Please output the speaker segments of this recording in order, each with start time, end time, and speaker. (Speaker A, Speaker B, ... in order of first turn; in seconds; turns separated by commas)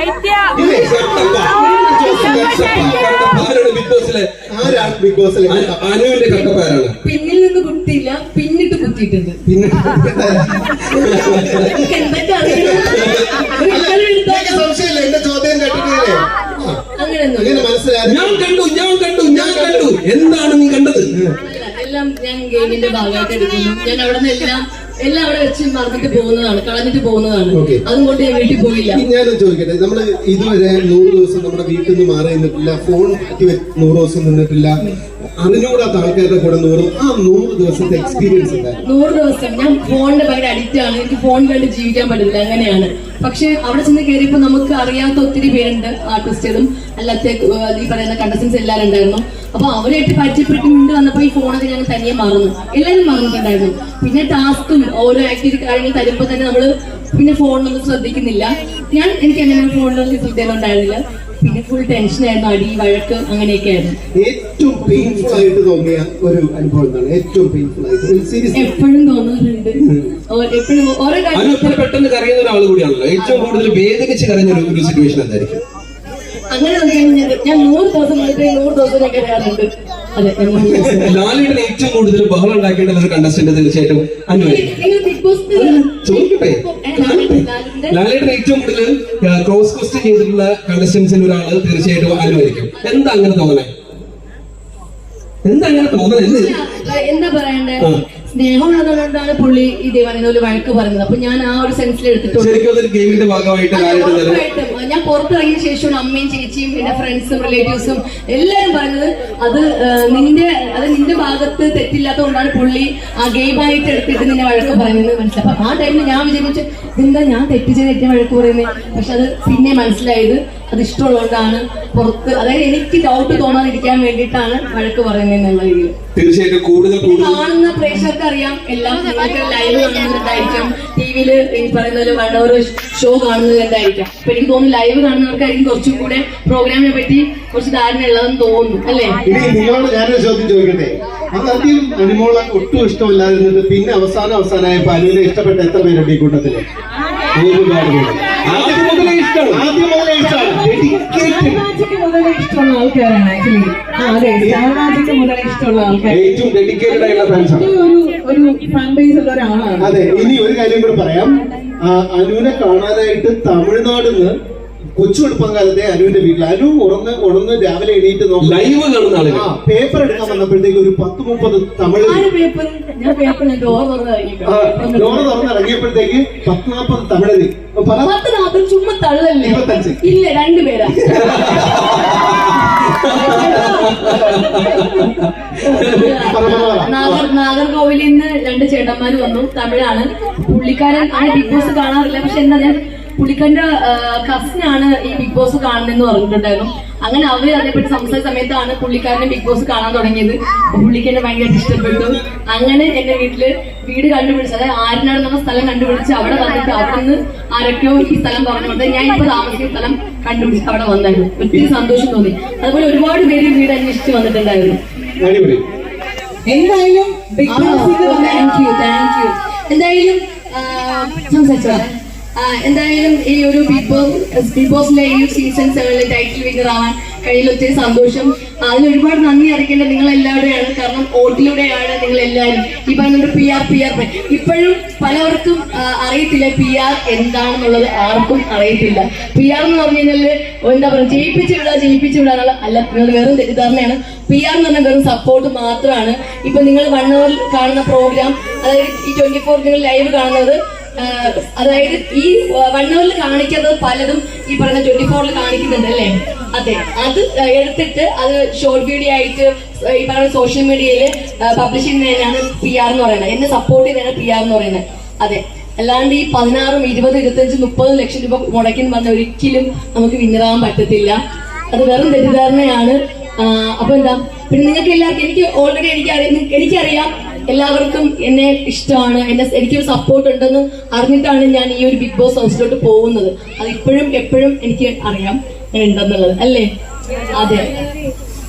Speaker A: 0.5-3.0, Speaker B: 0.6-5.0, Speaker C: 1.4-3.0, Speaker A: 4.5-5.8, Speaker B: 5.5-6.9, Speaker C: 7.0-9.4, Speaker A: 9.4-11.8, Speaker B: 11.2-11.6, Speaker C: 11.7-14.7, Speaker A: 12.4-12.8, Speaker A: 13.7-16.8, Speaker C: 16.9-17.6, Speaker A: 17.3-18.4, Speaker B: 18.0-21.1, Speaker C: 19.3-19.9, Speaker C: 21.4-29.0, Speaker A: 27.5-27.8, Speaker A: 28.9-34.8, Speaker A: 35.4-38.8, Speaker C: 38.8-64.0, Speaker A: 64.1-68.7, Speaker C: 65.0-65.4, Speaker C: 68.5-71.8, Speaker B: 71.3-75.6, Speaker C: 73.2-73.5, Speaker C: 76.5-81.1, Speaker B: 80.8-84.8, Speaker C: 84.4-88.0, Speaker B: 85.5-93.7, Speaker B: 95.4-96.5, Speaker C: 96.2-102.6, Speaker B: 102.3-104.4, Speaker C: 103.7-125.9, Speaker B: 126.1-127.4, Speaker C: 127.0-139.2, Speaker A: 139.2-146.6, Speaker B: 147.3-149.6, Speaker A: 148.4-151.6, Speaker D: 150.2-159.9, Speaker A: 154.4-154.7, Speaker B: 156.1-157.7, Speaker A: 159.8-164.3, Speaker A: 164.9-172.2, Speaker B: 168.4-169.5, Speaker C: 172.0-175.3, Speaker A: 174.4-178.1, Speaker C: 178.0-181.0, Speaker A: 179.4-180.1, Speaker A: 180.9-181.7, Speaker B: 181.2-186.3, Speaker C: 183.0-184.8, Speaker A: 184.1-184.4, Speaker C: 185.6-214.8, Speaker A: 186.2-187.3, Speaker B: 215.2-215.6, Speaker D: 216.5-218.5, Speaker C: 217.4-271.2, Speaker C: 271.7-286.7, Speaker C: 287.3-287.7